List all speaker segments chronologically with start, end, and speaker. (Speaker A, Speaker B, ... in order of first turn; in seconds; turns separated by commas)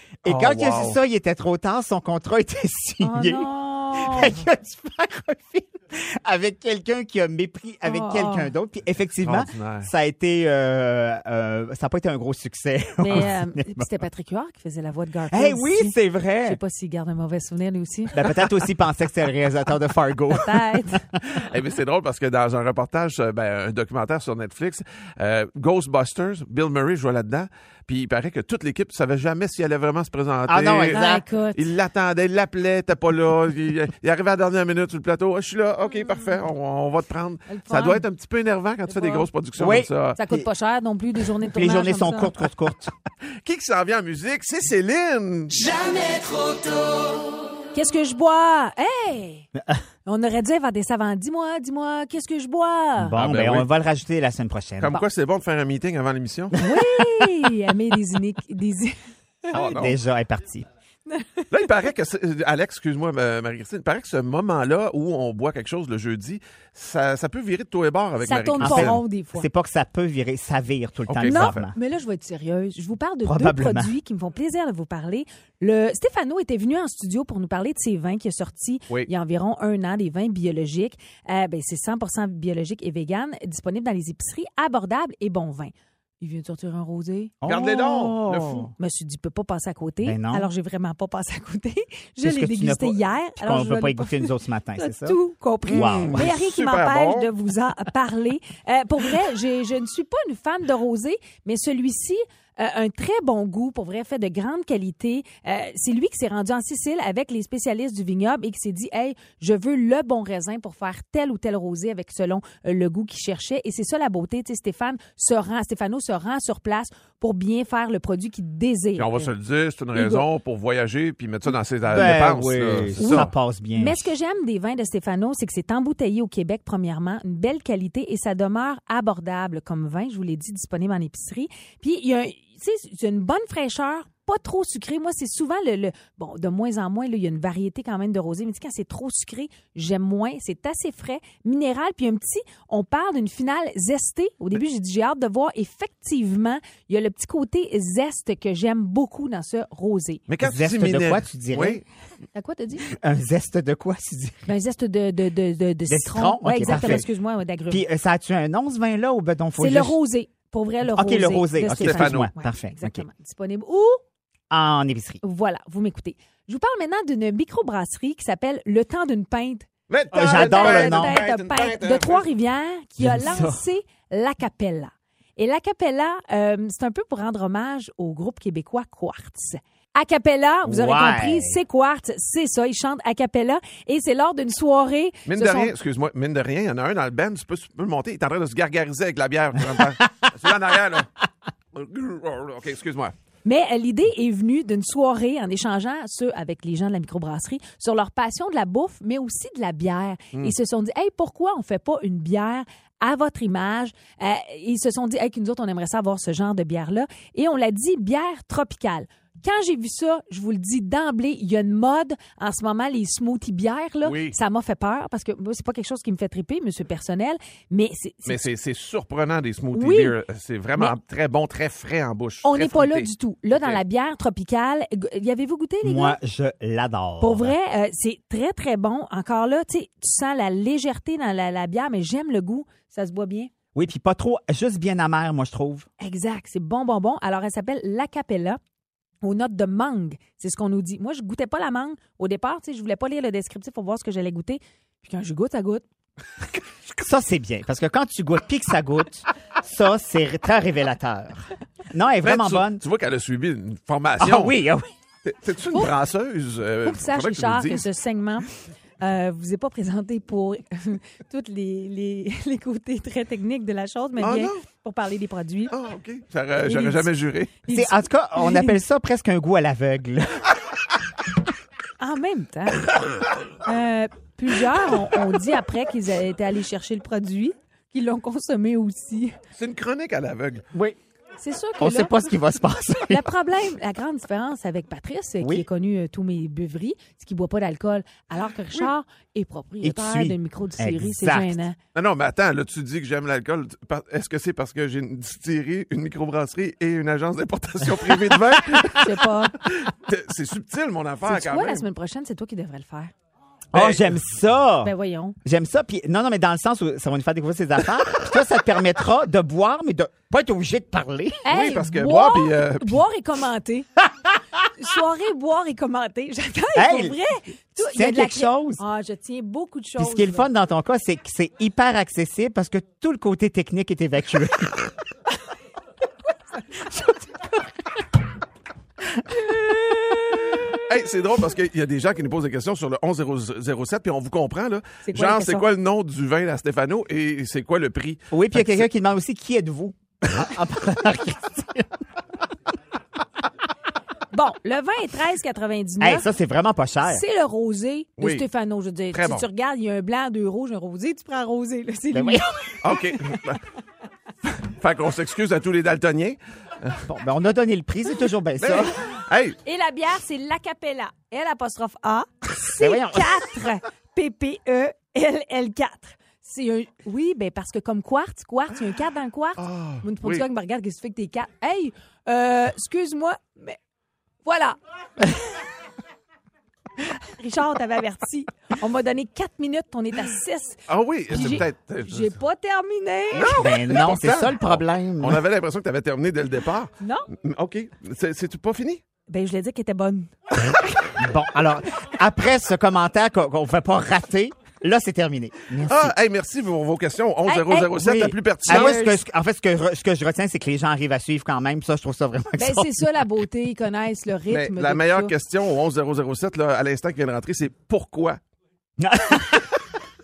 Speaker A: 0.2-13.9, Speaker B: 0.2-1.0, Speaker C: 3.0-4.4, Speaker C: 7.8-8.5, Speaker B: 9.2-9.9, Speaker C: 13.0-18.3, Speaker A: 15.3-16.6, Speaker A: 18.1-21.4, Speaker C: 20.3-21.1, Speaker B: 21.4-31.0, Speaker A: 30.5-31.2, Speaker C: 30.9-31.6, Speaker B: 31.6-40.2, Speaker C: 36.0-36.2, Speaker C: 37.5-38.0, Speaker C: 38.9-39.3, Speaker A: 39.6-40.5, Speaker C: 40.2-42.3, Speaker A: 41.5-42.9, Speaker B: 43.4-45.7, Speaker C: 47.7-49.5, Speaker C: 50.1-53.1, Speaker A: 53.0-55.0, Speaker B: 53.2-53.7, Speaker B: 54.8-56.6, Speaker C: 56.6-59.0, Speaker A: 56.6-57.3, Speaker B: 59.5-60.0, Speaker A: 59.5-60.7, Speaker C: 61.1-61.5, Speaker B: 61.5-69.0, Speaker C: 68.2-69.5, Speaker A: 68.6-71.8, Speaker B: 71.1-71.7, Speaker C: 71.2-119.3, Speaker A: 73.2-73.9, Speaker A: 87.4-88.7, Speaker B: 87.5-88.7, Speaker A: 90.0-90.5, Speaker A: 92.2-96.3, Speaker B: 95.7-97.3, Speaker B: 119.0-123.3, Speaker C: 119.9-120.3, Speaker A: 121.9-124.1, Speaker C: 123.0-150.2, Speaker B: 150.3-151.8, Speaker A: 150.4-151.8, Speaker C: 152.3-152.9, Speaker A: 152.9-154.5, Speaker C: 154.5-157.8, Speaker A: 155.9-157.1, Speaker B: 156.7-157.0, Speaker A: 157.7-160.0, Speaker C: 159.6-164.0, Speaker A: 160.9-163.1, Speaker B: 161.7-162.3, Speaker A: 164.5-165.2, Speaker C: 165.2-185.7, Speaker B: 169.9-172.3, Speaker A: 170.1-171.2, Speaker A: 173.0-173.6, Speaker A: 180.7-181.6, Speaker B: 185.3-191.1, Speaker B: 191.7-193.1, Speaker C: 193.4-218.4, Speaker B: 214.0-214.4, Speaker B: 218.3-223.8, Speaker C: 219.7-220.2, Speaker C: 222.4-226.2, Speaker A: 225.8-227.5, Speaker C: 227.2-233.5, Speaker A: 233.8-235.9, Speaker C: 236.0-238.6, Speaker C: 239.2-245.8, Speaker A: 247.0-252.8, Speaker B: 252.2-254.6, Speaker A: 254.2-254.9, Speaker B: 255.2-257.9, Speaker C: 256.8-258.5, Speaker C: 259.0-265.7, Speaker B: 264.2-264.6, Speaker B: 265.7-267.5, Speaker C: 266.6-267.1, Speaker C: 267.6-268.8, Speaker A: 267.7-270.6, Speaker C: 272.0-272.9, Speaker C: 273.6-279.4, Speaker B: 279.6-280.6, Speaker A: 280.7-281.0, Speaker C: 281.4-282.1, Speaker A: 281.8-283.3, Speaker C: 283.1-291.8, Speaker A: 289.8-291.6, Speaker B: 291.9-301.9, Speaker C: 298.9-299.6, Speaker C: 301.2-303.1, Speaker A: 303.7-304.9, Speaker B: 303.7-304.0, Speaker C: 304.8-305.4, Speaker A: 305.4-311.5, Speaker C: 311.4-313.9, Speaker B: 311.5-313.0, Speaker C: 314.8-320.5, Speaker A: 316.8-317.2, Speaker A: 317.8-318.8, Speaker A: 320.0-324.9, Speaker A: 329.2-330.2, Speaker C: 329.5-330.5, Speaker B: 330.7-338.9, Speaker C: 335.1-335.7, Speaker A: 338.3-342.0, Speaker C: 344.3-346.3, Speaker A: 346.0-347.2, Speaker C: 347.0-352.8, Speaker B: 348.2-348.4, Speaker B: 349.1-349.5, Speaker A: 352.1-352.5, Speaker B: 352.8-353.6, Speaker B: 354.4-357.0, Speaker A: 357.1-358.9, Speaker B: 358.6-359.6, Speaker C: 359.6-373.8, Speaker A: 362.6-363.5, Speaker B: 369.6-370.4, Speaker C: 374.4-374.8, Speaker C: 377.2-383.6, Speaker B: 380.9-382.3, Speaker B: 383.4-389.0, Speaker A: 383.4-385.4, Speaker C: 387.0-387.3, Speaker C: 389.3-390.3, Speaker A: 391.2-396.1, Speaker B: 395.9-399.0, Speaker C: 397.5-399.2, Speaker A: 398.0-403.2, Speaker C: 402.6-405.3, Speaker B: 404.5-408.4, Speaker A: 409.0-409.8